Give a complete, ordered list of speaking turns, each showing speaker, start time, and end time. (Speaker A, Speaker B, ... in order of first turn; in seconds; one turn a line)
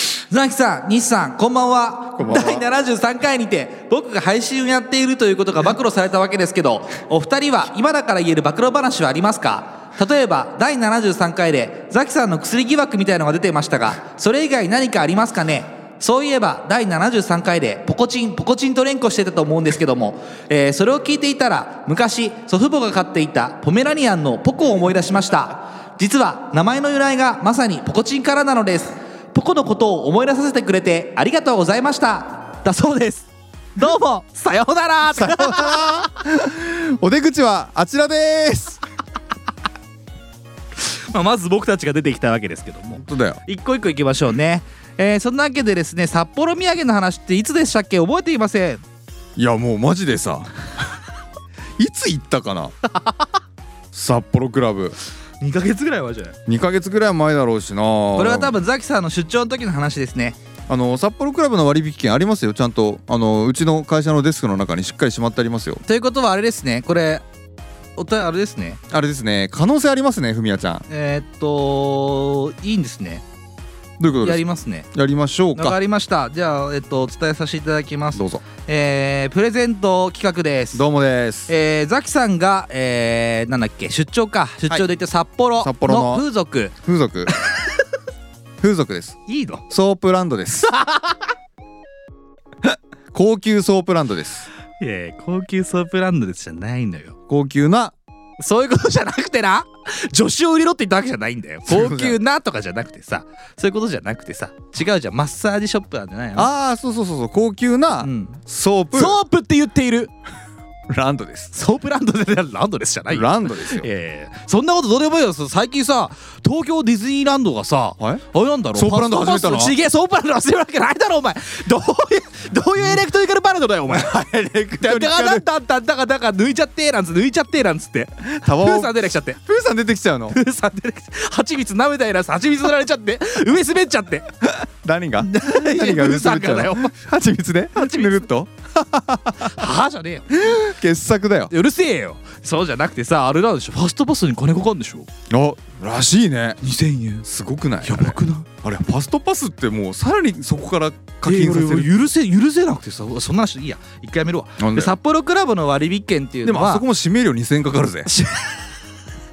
Speaker A: 0.3-36.0
Speaker B: 2.2-2.6
Speaker B: 35.1-38.8
Speaker A: 40.8-48.8
Speaker B: 43.0-43.4
Speaker B: 49.4-50.8
Speaker B: 51.8-52.7
Speaker B: 53.9-55.0
Speaker A: 55.4-56.4
Speaker B: 56.5-58.5
Speaker A: 58.1-60.4
Speaker B: 60.7-65.8
Speaker A: 65.8-67.2
Speaker A: 68.0-68.8
Speaker B: 68.9-70.8
Speaker A: 70.9-73.2
Speaker B: 74.0-75.8
Speaker A: 74.2-74.9
Speaker A: 75.5-80.8
Speaker B: 78.1-78.4
Speaker B: 80.7-81.5
Speaker A: 81.5-86.7
Speaker B: 85.6-86.2
Speaker B: 86.8-87.3
Speaker B: 88.6-90.7
Speaker A: 89.3-89.6
Speaker A: 90.6-91.2
Speaker B: 92.6-94.5
Speaker A: 94.8-97.1
Speaker B: 97.3-97.9
Speaker A: 98.4-106.5
Speaker B: 101.7-102.2
Speaker B: 106.3-109.2
Speaker A: 108.0-108.4
Speaker A: 108.9-110.1
Speaker B: 110.9-111.5
Speaker A: 111.5-129.4
Speaker B: 113.1-113.9
Speaker B: 118.0-119.8
Speaker B: 123.9-125.4
Speaker B: 128.2-130.4
Speaker A: 130.3-134.3
Speaker B: 134.5-139.6
Speaker A: 135.2-136.9
Speaker A: 137.7-138.3
Speaker A: 139.4-140.3
Speaker B: 140.3-141.5
Speaker A: 141.5-145.1
Speaker B: 145.3-146.6
Speaker A: 146.6-147.2
Speaker B: 147.2-151.9
Speaker A: 147.8-148.5
Speaker A: 151.2-156.8
Speaker B: 154.6-155.0
Speaker B: 156.4-158.1
Speaker A: 158.1-158.6